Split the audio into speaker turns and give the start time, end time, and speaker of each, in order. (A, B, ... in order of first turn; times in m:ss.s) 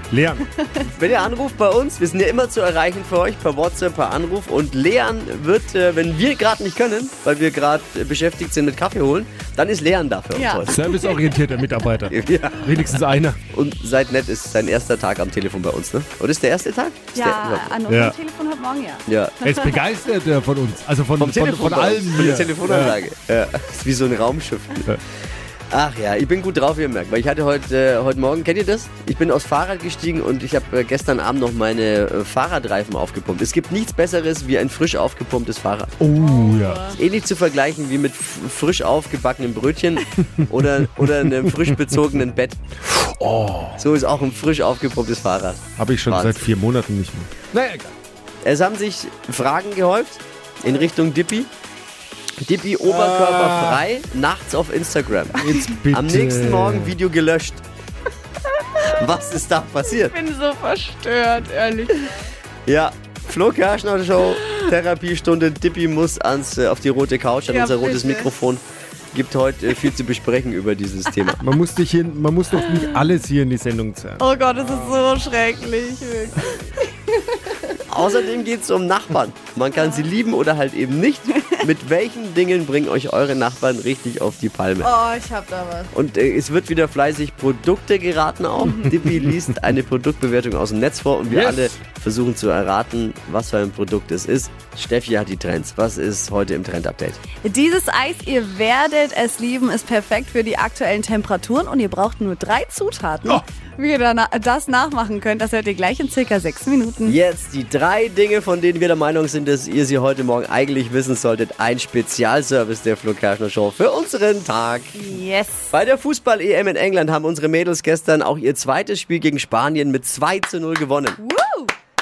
0:00.1-0:00.4 A
0:00.6-0:00.9 B
0:00.8-0:10.9 C
0:10.3-0:11.4 B
0:10.7-0:13.4 A
0:12.1-0:17.8 C
0:17.1-0:19.7 B
0:17.9-0:18.1 A
0:19.1-0:19.4 C
0:19.4-0:22.9 A
0:21.2-0:25.0 C
0:25.7-0:36.0 C
0:36.0-0:36.8 A
0:36.2-0:37.0 B
0:36.9-0:42.6 C
0:42.9-0:43.8 A
0:43.8-0:46.5 C
0:45.8-0:47.9 A
0:48.4-0:51.5 C
0:52.4-0:57.6 C
0:52.8-0:53.8 A
0:55.4-0:56.9 A
0:58.8-1:00.1 C
0:59.9-1:02.1 B
1:02.6-1:11.4 C
1:07.5-1:08.3 B
1:11.4-1:14.2 A
1:12.6-1:13.1 B
1:14.2-1:17.8 B
1:17.9-1:25.0 C
1:19.7-1:20.1 B
1:24.8-1:25.9 B
1:25.9-1:37.2 C
1:28.6-1:28.9 B
1:31.3-1:31.7 A
1:37.4-1:47.2 B
1:47.0-1:55.0 C
1:54.9-1:55.7 B
1:55.7-2:01.2 C
2:01.2-2:01.7 B